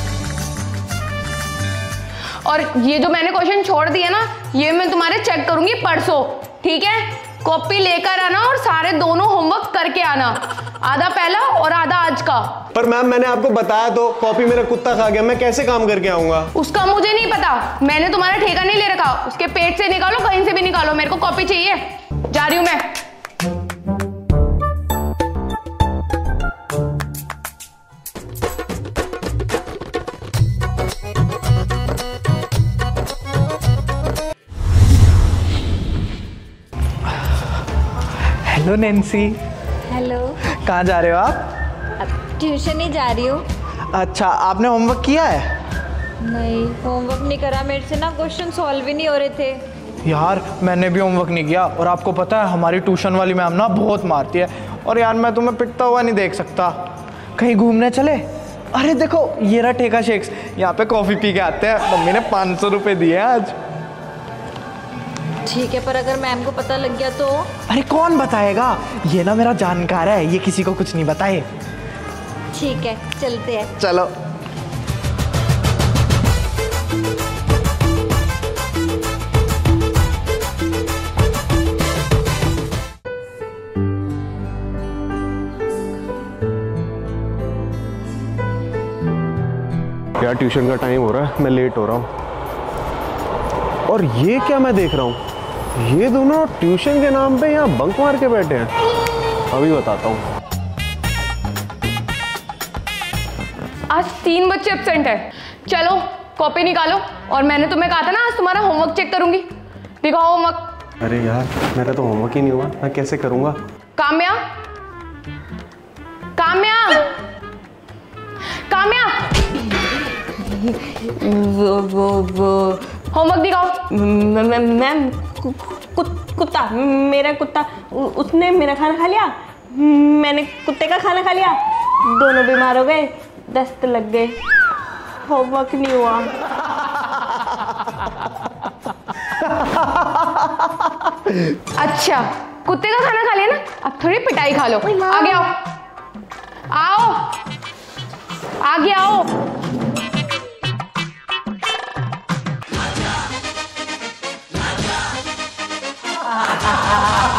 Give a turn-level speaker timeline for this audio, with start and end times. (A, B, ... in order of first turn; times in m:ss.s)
0:02.4-0:12.6 A
0:12.7-0:16.5 B
0:16.6-0:22.9 A
0:38.5-0:39.4 C
0:39.9-0:40.4 D
0:40.6-0:41.5 C
0:42.0-0:43.4 D
0:43.9-0:45.5 C
0:46.2-0:49.6 D
0:50.0-0:56.8 C
0:57.4-1:03.5 C
1:05.4-1:07.5 D
1:07.7-1:11.5 C
1:12.5-1:13.7 D
1:13.8-1:14.1 C
1:30.2-1:32.1 B
1:33.9-1:35.2 B
1:35.8-1:38.7 B
1:39.5-1:40.2 B
1:43.9-1:49.5 A
1:50.0-1:50.7 A
1:51.0-1:53.6 B
1:54.0-1:54.4 A
1:56.4-1:57.1 A
1:58.7-1:59.4 A
2:00.4-2:02.8 E
2:03.1-2:03.8 A
2:03.9-2:14.4 E
2:15.2-2:16.3 E
2:21.7-2:25.6 A
2:26.7-2:27.4 A
2:28.6-2:29.3 A